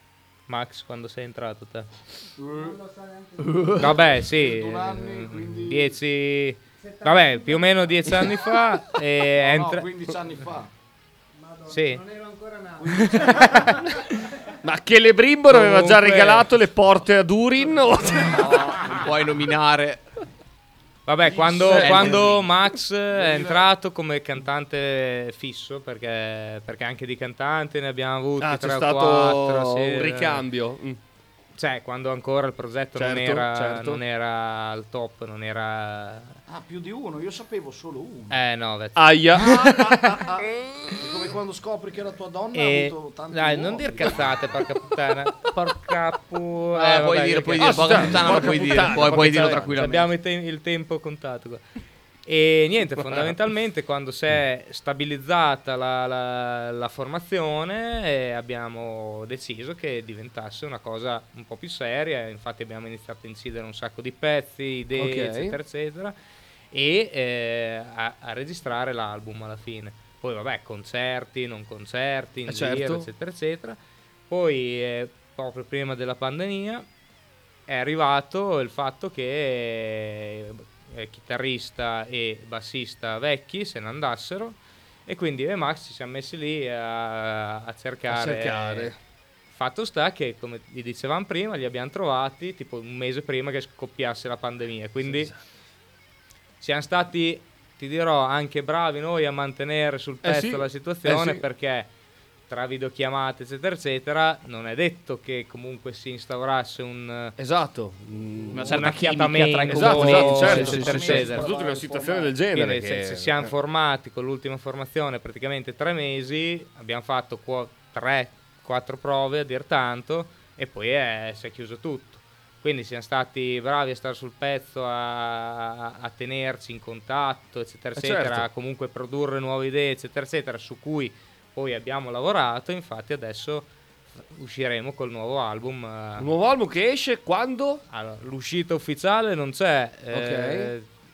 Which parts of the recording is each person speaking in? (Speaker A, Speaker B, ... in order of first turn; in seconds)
Speaker A: 0.5-1.9, 3.8-9.9, 11.7-12.0, 13.2-13.7, 15.5-16.5, 21.1-30.4, 31.6-36.4, 38.3-40.2, 42.5-51.6, 52.2-66.2, 66.7-73.8, 74.3-76.9, 77.7-88.9, 89.5-95.3, 96.6-101.9, 102.5-107.3, 108.7-111.5, 112.5-133.7, 134.2-136.3, 137.9-140.9
Speaker B: 2.4-2.8, 4.1-6.0, 9.4-10.7, 12.8-13.7, 21.2-22.4, 23.1-23.7, 36.5-38.4, 39.4-44.4, 110.4-112.3
Speaker C: 2.5-4.2, 6.8-8.3, 11.4-13.9
Speaker D: 3.4-4.0, 18.4-20.0, 21.6-22.4, 46.8-50.1, 108.5-111.3
Speaker E: 14.6-19.0, 28.4-31.0, 33.0-34.0, 39.0-39.8, 47.6-49.8, 65.0-65.6, 72.5-73.1, 88.1-89.0, 95.0-95.4, 100.2-101.4, 107.4-108.9, 109.7-113.5, 128.0-128.5, 136.2-137.8, 140.1-140.7